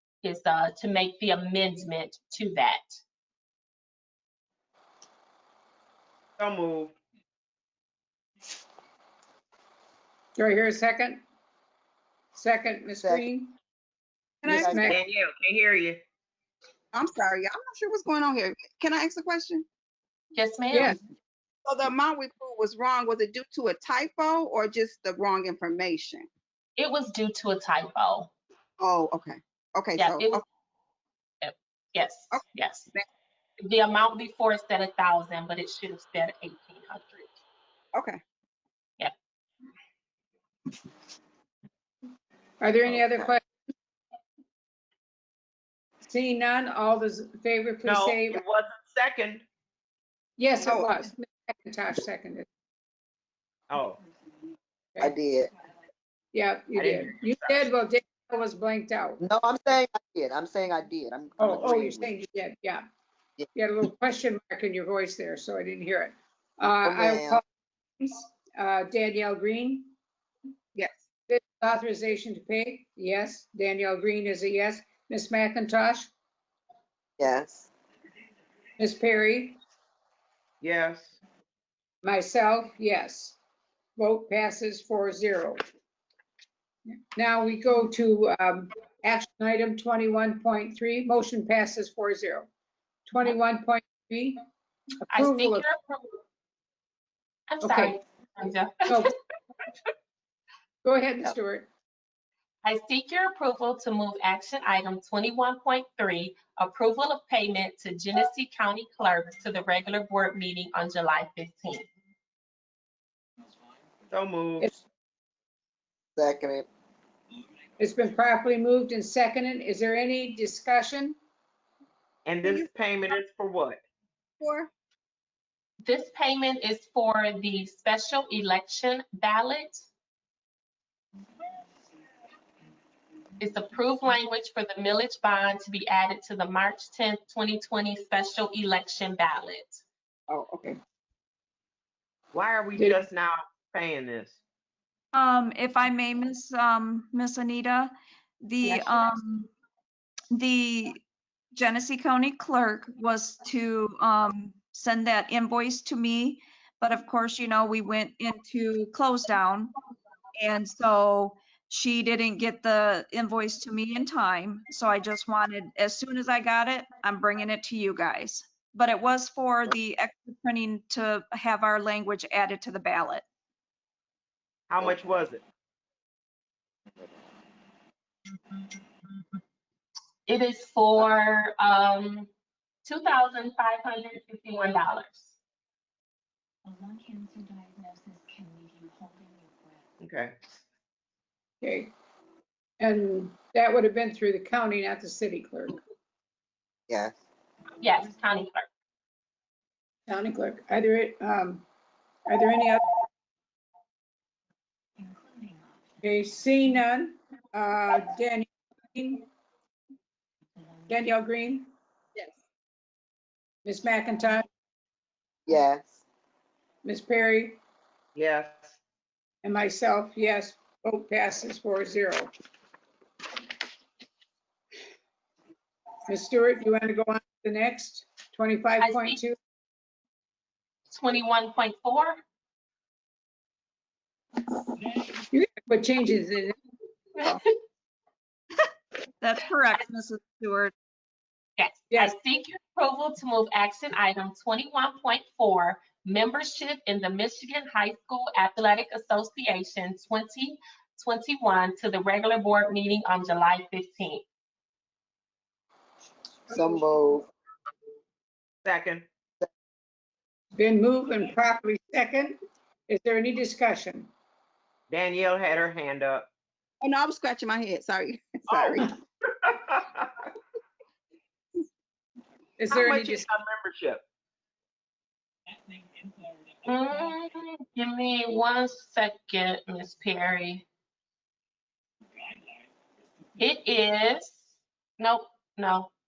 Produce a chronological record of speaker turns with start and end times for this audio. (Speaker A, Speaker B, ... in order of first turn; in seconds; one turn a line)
Speaker A: 0.2-3.0
Speaker B: 6.4-7.0
Speaker C: 10.4-11.2
Speaker C: 12.3-13.6
Speaker D: 13.0-13.3
Speaker C: 14.4-15.0
Speaker E: 14.5-14.8
Speaker D: 14.5-14.9
Speaker B: 14.9-16.0
Speaker E: 16.9-19.7
Speaker A: 20.4-21.0
Speaker E: 21.6-26.3
Speaker A: 26.8-28.3
Speaker E: 28.8-30.4
Speaker A: 30.0-30.4
Speaker A: 31.4-32.9
Speaker E: 32.3-33.0
Speaker A: 33.6-37.4
Speaker E: 38.0-38.2
Speaker C: 42.6-43.4
Speaker D: 42.9-43.3
Speaker C: 46.0-48.4
Speaker B: 47.9-49.5
Speaker C: 50.4-52.5
Speaker E: 50.6-51.0
Speaker B: 53.7-54.0
Speaker D: 55.0-55.5
Speaker C: 56.3-59.2
Speaker B: 56.8-57.7
Speaker D: 59.2-62.1
Speaker C: 61.4-62.8
Speaker C: 63.5-67.4
Speaker D: 66.8-67.4
Speaker C: 68.0-69.9
Speaker E: 70.8-71.0
Speaker C: 71.3-76.1
Speaker D: 77.2-77.7
Speaker C: 78.8-79.6
Speaker B: 80.6-81.2
Speaker C: 82.0-83.4
Speaker C: 84.0-85.6
Speaker C: 86.9-92.5
Speaker C: 93.1-94.4
Speaker A: 95.1-96.2
Speaker C: 95.1-95.7
Speaker A: 97.5-99.1
Speaker C: 97.6-98.0
Speaker C: 100.8-101.7
Speaker A: 102.6-111.9
Speaker B: 114.1-114.7
Speaker D: 116.2-116.7
Speaker C: 117.8-121.2
Speaker B: 122.2-123.8
Speaker E: 122.4-122.7
Speaker E: 124.4-124.7
Speaker A: 125.8-129.9
Speaker A: 133.4-139.8
Speaker E: 140.3-140.8
Speaker B: 142.3-144.4
Speaker C: 142.8-143.1
Speaker F: 145.1-149.5
Speaker A: 148.6-149.1
Speaker F: 150.3-151.0
Speaker F: 151.6-159.7
Speaker F: 160.4-173.2
Speaker B: 174.7-175.4
Speaker A: 180.3-182.3
Speaker A: 182.8-185.4
Speaker G: 186.7-189.8
Speaker B: 190.0-190.3
Speaker C: 191.6-191.9
Speaker C: 192.8-195.8
Speaker D: 196.9-197.2
Speaker A: 197.8-198.7
Speaker C: 200.1-201.6
Speaker C: 202.3-202.9
Speaker G: 205.0-206.0
Speaker C: 206.0-209.3
Speaker C: 210.9-211.7
Speaker C: 213.7-214.5
Speaker D: 215.5-216.0
Speaker C: 216.8-217.6
Speaker B: 218.2-218.8
Speaker C: 219.4-222.3
Speaker C: 226.1-229.4
Speaker A: 228.8-229.2
Speaker A: 230.9-232.2
Speaker C: 235.3-236.6
Speaker F: 239.2-240.7
Speaker A: 241.6-254.3
Speaker D: 256.5-257.3
Speaker B: 258.6-259.1
Speaker C: 260.6-262.4
Speaker C: 262.9-264.1
Speaker B: 264.9-266.3
Speaker E: 266.8-268.9
Speaker B: 268.5-268.8
Speaker B: 269.5-270.1
Speaker C: 272.6-273.3
Speaker B: 272.7-274.0
Speaker A: 276.6-280.7
Speaker A: 283.4-285.9